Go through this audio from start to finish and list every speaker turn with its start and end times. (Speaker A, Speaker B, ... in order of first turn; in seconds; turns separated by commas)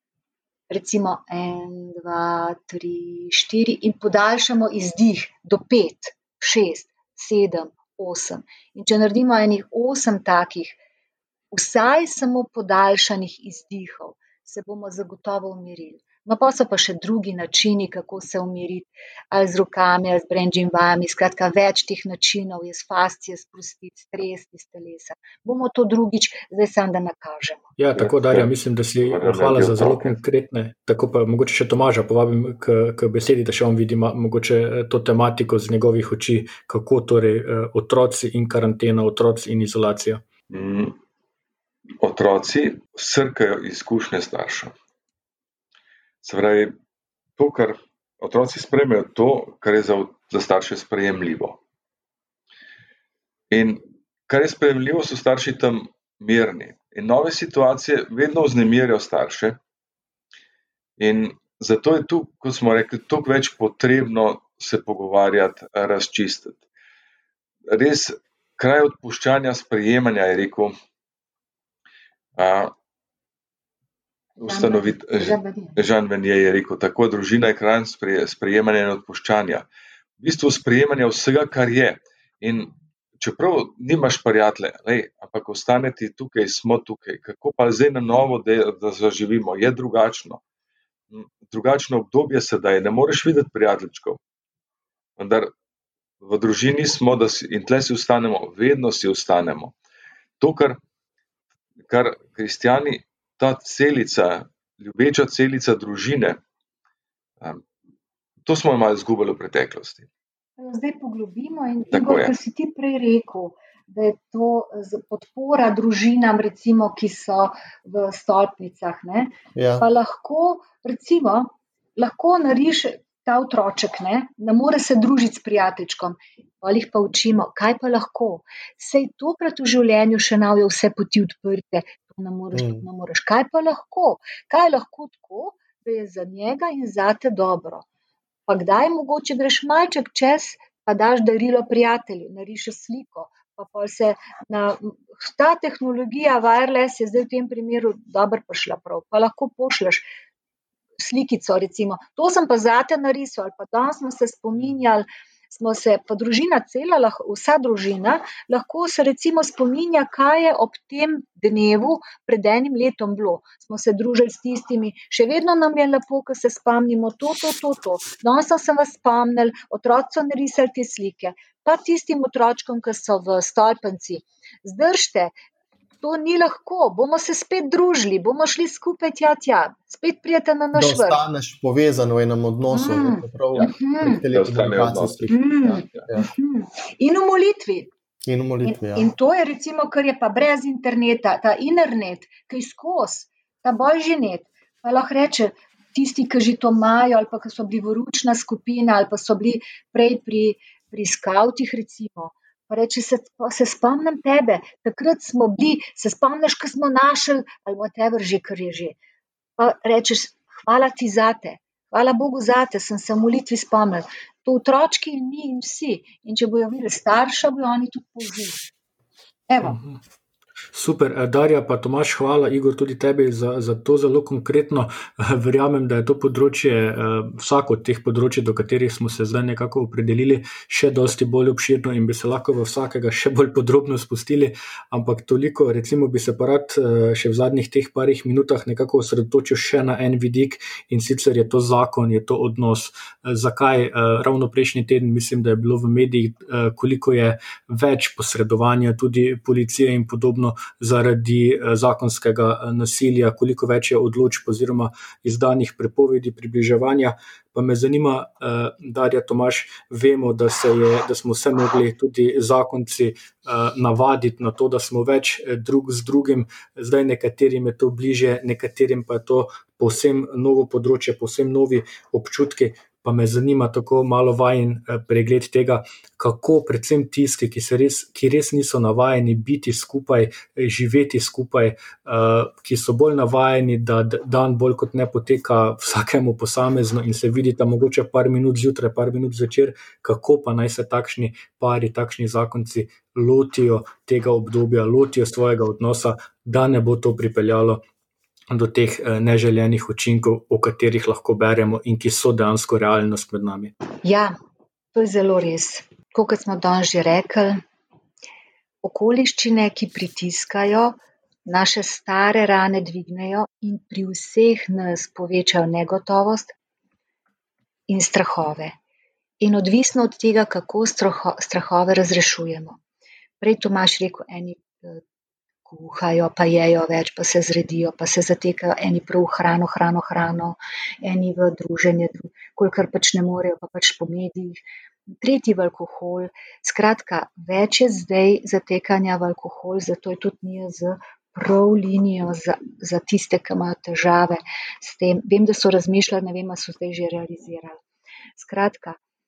Speaker A: 0.7-10.8, Speaker A: 11.5-27.6, Speaker B: 27.8-40.2, Speaker C: 28.0-28.5, Speaker C: 29.0-30.2, Speaker C: 40.5-41.0, Speaker C: 42.0-44.7, Speaker C: 46.2-46.8, Speaker C: 47.4-51.6, Speaker C: 53.5-59.6, Speaker C: 61.0-66.6, Speaker C: 67.7-70.7, Speaker C: 72.4-72.7, Speaker C: 74.4-79.7, Speaker A: 74.4-75.8, Speaker C: 80.2-90.4, Speaker C: 91.1-94.2, Speaker C: 95.2-95.5, Speaker C: 96.2-99.7, Speaker C: 100.4-100.8, Speaker C: 101.9-106.4, Speaker C: 108.5-110.1, Speaker A: 110.6-137.8, Speaker C: 111.9-112.3, Speaker D: 119.5-119.9, Speaker D: 132.5-132.8, Speaker A: 138.5-150.1, Speaker A: 151.0-175.3, Speaker A: 176.0-181.2, Speaker D: 180.7-185.4, Speaker A: 182.7-184.2, Speaker C: 184.3-186.1, Speaker A: 185.3-187.9, Speaker D: 188.2-189.1, Speaker A: 188.6-209.0, Speaker A: 209.6-218.6, Speaker A: 219.5-219.8, Speaker B: 219.6-219.9, Speaker B: 220.7-297.8, Speaker B: 298.5-303.7, Speaker A: 304.0-304.3, Speaker A: 304.9-307.6, Speaker A: 308.8-316.5, Speaker A: 317.9-318.8, Speaker A: 319.4-322.8, Speaker A: 323.4-325.0, Speaker A: 325.7-334.6, Speaker A: 335.2-347.8, Speaker A: 348.4-349.0